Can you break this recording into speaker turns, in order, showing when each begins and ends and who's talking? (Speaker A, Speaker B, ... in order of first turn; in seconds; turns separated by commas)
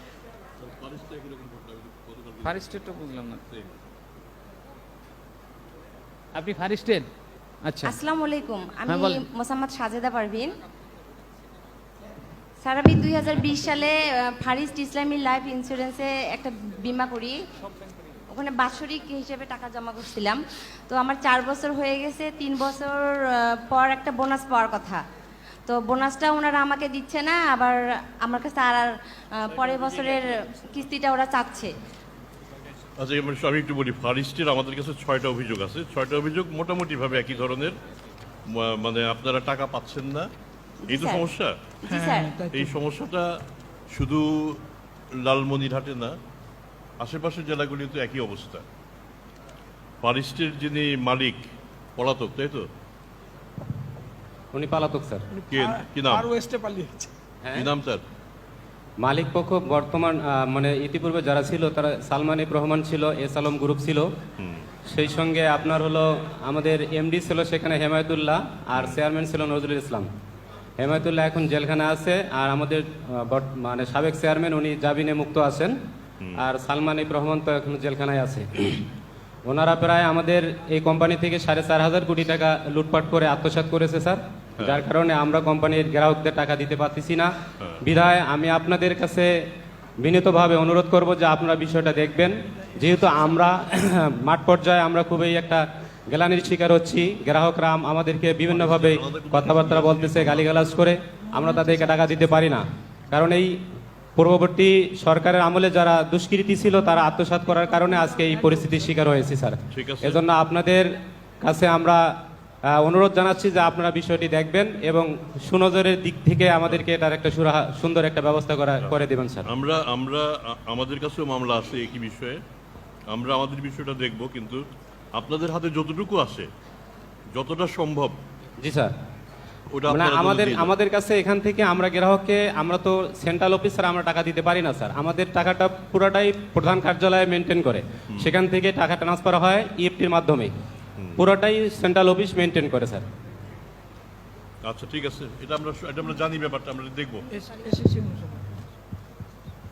Speaker A: 0.6-3.6, Speaker B: 2.4-3.4, Speaker B: 6.3-7.1, Speaker B: 7.7-8.0, Speaker C: 7.8-10.5, Speaker B: 8.9-9.2, Speaker C: 12.6-17.4, Speaker C: 18.3-25.0, Speaker C: 25.7-31.7, Speaker A: 33.0-37.8, Speaker A: 38.5-40.3, Speaker C: 40.8-42.5, Speaker A: 40.9-41.5, Speaker A: 42.5-44.6, Speaker A: 45.2-46.1, Speaker A: 47.0-48.6, Speaker A: 50.0-51.4, Speaker A: 52.0-52.7, Speaker D: 54.5-55.2, Speaker A: 55.5-56.4, Speaker D: 57.4-57.7, Speaker A: 57.5-58.0, Speaker D: 59.0-64.1, Speaker A: 64.4-64.7, Speaker D: 64.9-70.1, Speaker D: 70.8-75.7, Speaker D: 76.4-78.8, Speaker D: 79.5-87.3, Speaker D: 87.8-89.3, Speaker D: 90.0-103.5, Speaker A: 98.5-100.5, Speaker D: 104.2-110.9, Speaker A: 109.7-110.2, Speaker D: 111.4-112.1, Speaker D: 112.8-119.5, Speaker A: 119.5-122.4, Speaker A: 123.1-124.6, Speaker A: 125.2-126.5, Speaker A: 127.3-128.2, Speaker D: 128.6-128.9, Speaker A: 129.7-130.7, Speaker D: 129.9-140.5, Speaker D: 141.2-143.0, Speaker A: 144.6-147.2